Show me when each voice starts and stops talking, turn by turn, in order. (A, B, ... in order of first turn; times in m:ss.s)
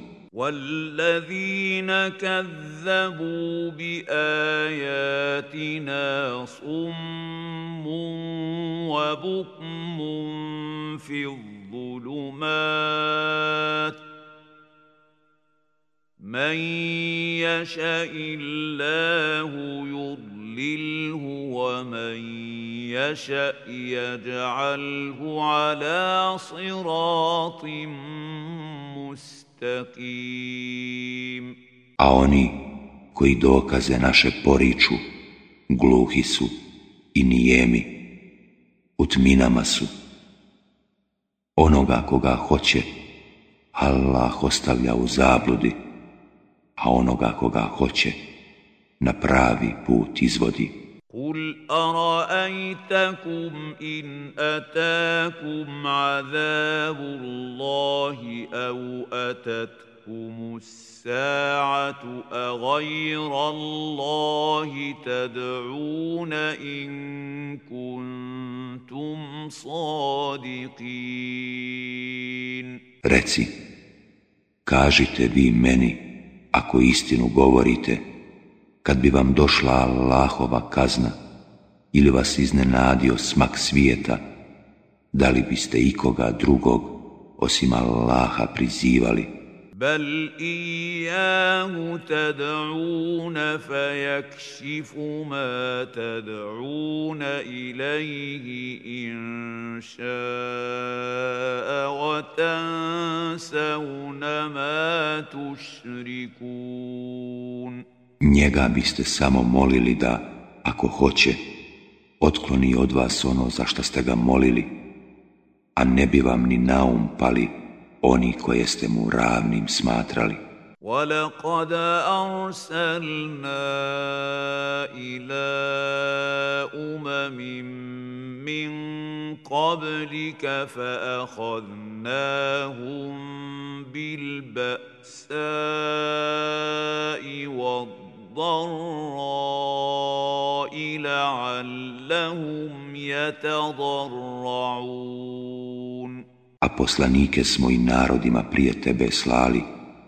0:00.3-0:14.0 A
0:16.2-0:31.6 A
0:32.0-0:32.6 B
0:33.1-0:35.0 B
0:35.7-0:36.5 B
0:37.1-0:37.9 B
0:39.0-0:39.9 B
0:41.6-0:42.9 B
0:43.8-0:45.8 B
0:46.8-0:48.2 B
0:49.0-0:50.8 B
0:51.1-1:12.8 A
1:13.0-1:13.5 B
1:14.7-1:18.1 B
1:18.8-1:21.2 B
1:21.9-1:24.2 B
1:25.1-1:29.3 B
1:29.8-1:47.8 A
1:48.2-1:51.4 B
1:52.2-1:54.7 B
1:55.8-2:00.4 B
2:00.8-2:26.2 A
2:26.6-2:29.7 B